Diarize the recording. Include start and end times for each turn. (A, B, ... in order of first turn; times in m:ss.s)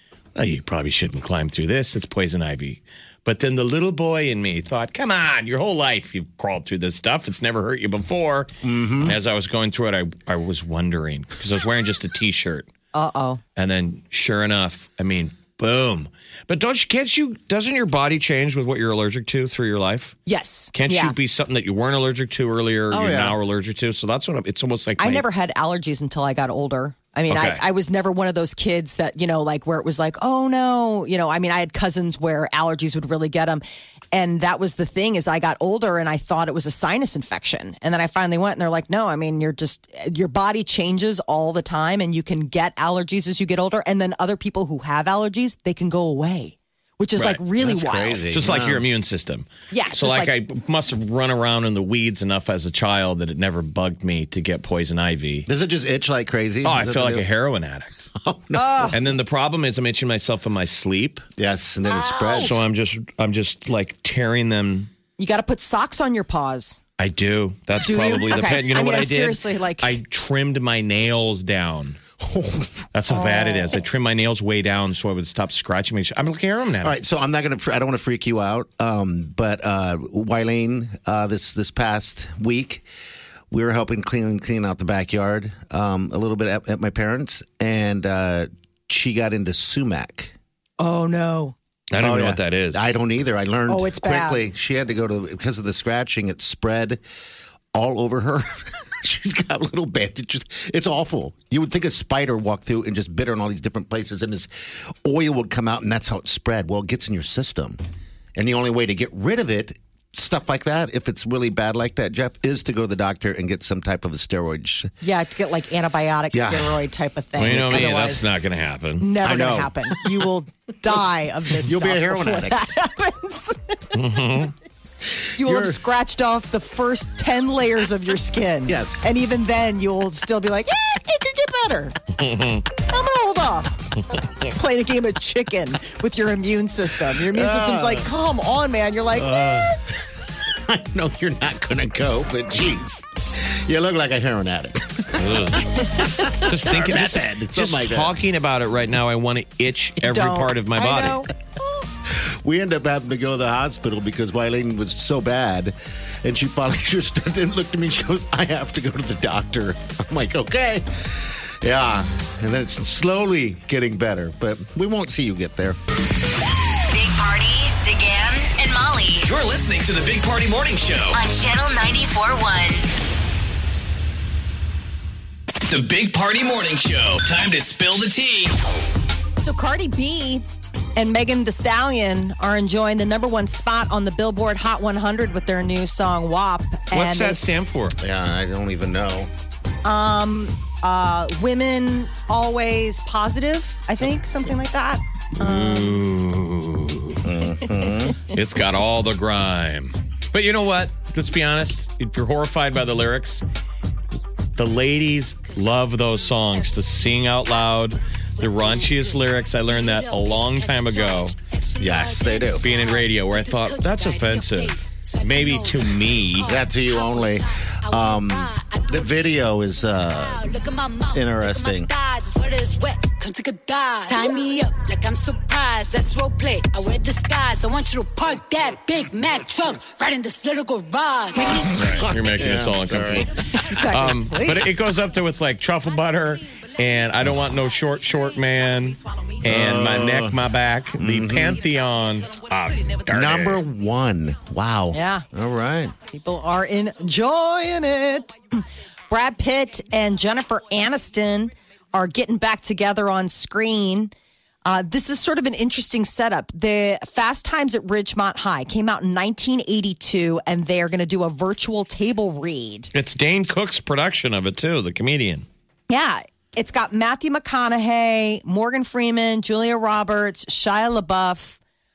0:00.4-0:12.7 A
0:08.6-0:09.2 B
0:12.9-0:13.4 C
0:13.6-0:20.2 A
0:20.3-0:21.2 C
0:20.7-0:25.2 A
0:22.9-0:23.4 B
0:25.0-0:48.2 C
0:27.3-0:27.6 A
0:47.6-0:48.8 B
0:48.3-0:55.5 A
0:49.7-0:50.3 C
0:55.5-0:57.2 B
0:56.6-0:58.0 A
0:58.2-0:59.0 B
0:58.5-0:59.0 C
0:58.9-1:01.2 A
1:01.4-1:02.6 B
1:01.8-1:02.6 C
1:02.4-1:04.9 A
1:05.2-1:06.8 C
1:07.0-1:12.0 A
1:07.8-1:10.0 C
1:12.2-1:12.9 B
1:12.9-1:17.0 A
1:13.1-1:13.8 C
1:16.8-1:22.8 B
1:23.5-1:30.3 B
1:30.8-1:31.6 C
1:31.9-1:32.9 A
1:32.0-1:37.0 B
1:33.7-1:34.4 C
1:37.7-1:47.8 B
1:48.4-1:54.9 B
1:55.0-1:58.3 C
1:56.3-1:56.8 B
1:57.4-1:59.1 A
1:59.0-2:04.0 C
1:59.2-2:00.3 B
2:01.6-2:02.7 B
2:03.9-2:04.5 A
2:05.4-2:05.8 B
2:05.4-2:12.0 C
2:08.7-2:09.1 B
2:12.2-2:12.6 A
2:12.8-2:14.0 C
2:14.5-2:19.4 C
2:17.2-2:18.1 B
2:19.2-2:28.2 B
2:25.2-2:25.8 A
2:26.4-2:31.2 A
2:30.0-2:31.3 C
2:32.1-2:45.8 B
2:46.8-2:49.3 D
2:49.2-2:51.2 E
2:51.1-2:52.9 D
2:55.7-2:58.5 E
2:59.4-3:00.4 C
3:01.0-3:07.6 C
3:06.9-3:08.0 A
3:08.0-3:09.3 B
3:09.8-3:16.0 C
3:15.4-3:17.2 A
3:17.2-3:18.2 B
3:18.3-3:23.4 A
3:24.6-3:31.4 A
3:25.5-3:52.0 F
3:31.8-3:32.7 B
3:32.6-3:36.6 A
3:36.4-3:40.6 B
3:41.1-3:41.9 B
3:51.4-3:53.8 B
3:51.7-3:53.3 A
3:53.6-3:54.8 C
3:53.9-4:03.6 A
3:57.2-3:57.6 B
3:57.7-3:58.7 F
3:59.4-4:00.4 B
4:01.0-4:01.6 B
4:03.1-4:06.0 B
4:04.9-4:05.3 C
4:06.1-4:14.1 C
4:14.7-4:22.9 C
4:22.9-4:25.5 A
4:25.9-4:31.6 C